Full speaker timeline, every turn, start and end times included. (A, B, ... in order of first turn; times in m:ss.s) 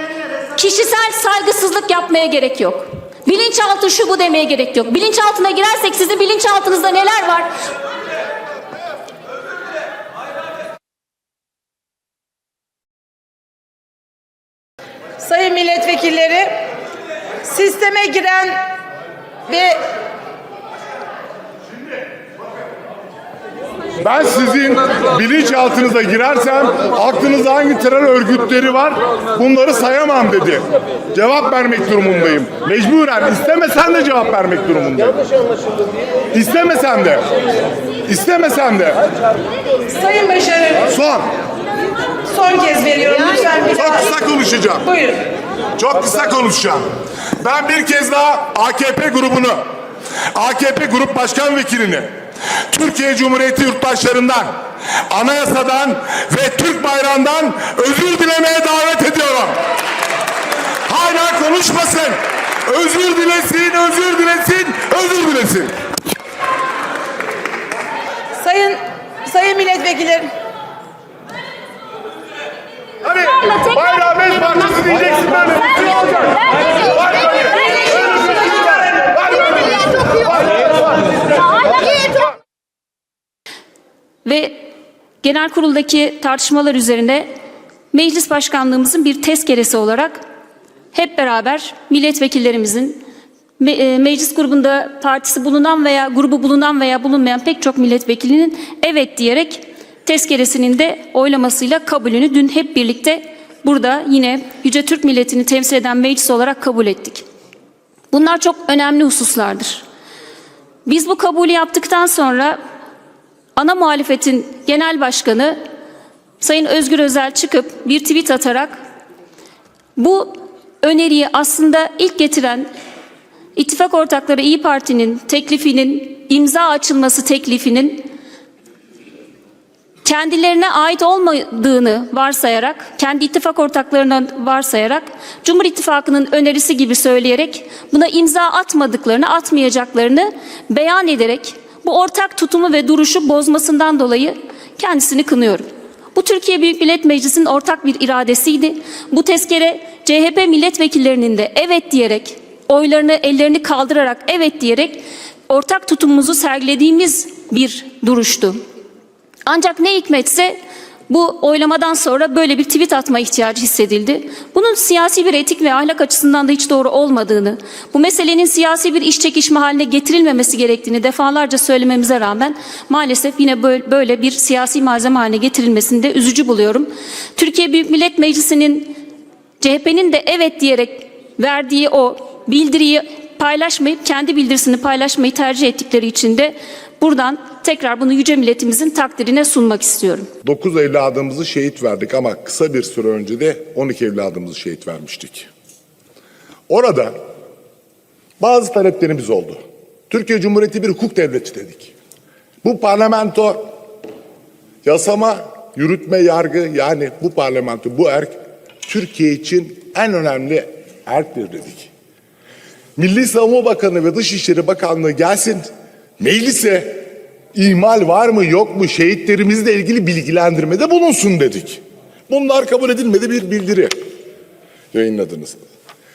0:00.6-0:07.5 A
0:15.2-0:16.6 B
0:17.4-0:18.6 B
0:19.5-0:19.8 B
0:24.0-0:35.2 C
0:36.3-0:37.2 C
0:38.1-0:39.0 C
0:39.9-0:40.9 B
0:40.9-0:41.3 C
0:42.3-0:44.1 B
0:43.7-0:44.8 C
0:44.8-0:45.2 B
0:45.8-0:46.8 C
0:47.4-0:49.6 C
0:50.3-0:52.1 C
0:52.7-0:54.5 C
0:55.1-0:59.6 C
1:00.9-1:05.7 C
1:08.4-1:10.3 B
1:13.0-1:20.7 C
1:24.2-1:24.7 A
1:25.2-1:27.3 A
1:27.9-1:30.2 A
1:30.9-1:33.0 A
1:33.6-1:47.2 A
1:48.1-1:49.8 A
1:50.8-1:52.6 A
1:53.6-1:55.6 A
1:56.4-1:58.7 A
2:00.0-2:02.7 A
2:03.6-2:08.1 A
2:10.0-2:38.6 A
2:39.4-2:40.6 A
2:41.1-2:59.0 A
2:59.6-3:10.3 A
3:10.4-3:15.5 C
3:16.7-3:17.1 C
3:18.4-3:19.6 C
3:20.1-3:21.9 C
3:22.6-3:23.7 C
3:24.8-3:28.3 C
3:28.8-3:31.9 C
3:33.0-3:43.9 C
3:44.9-3:45.6 C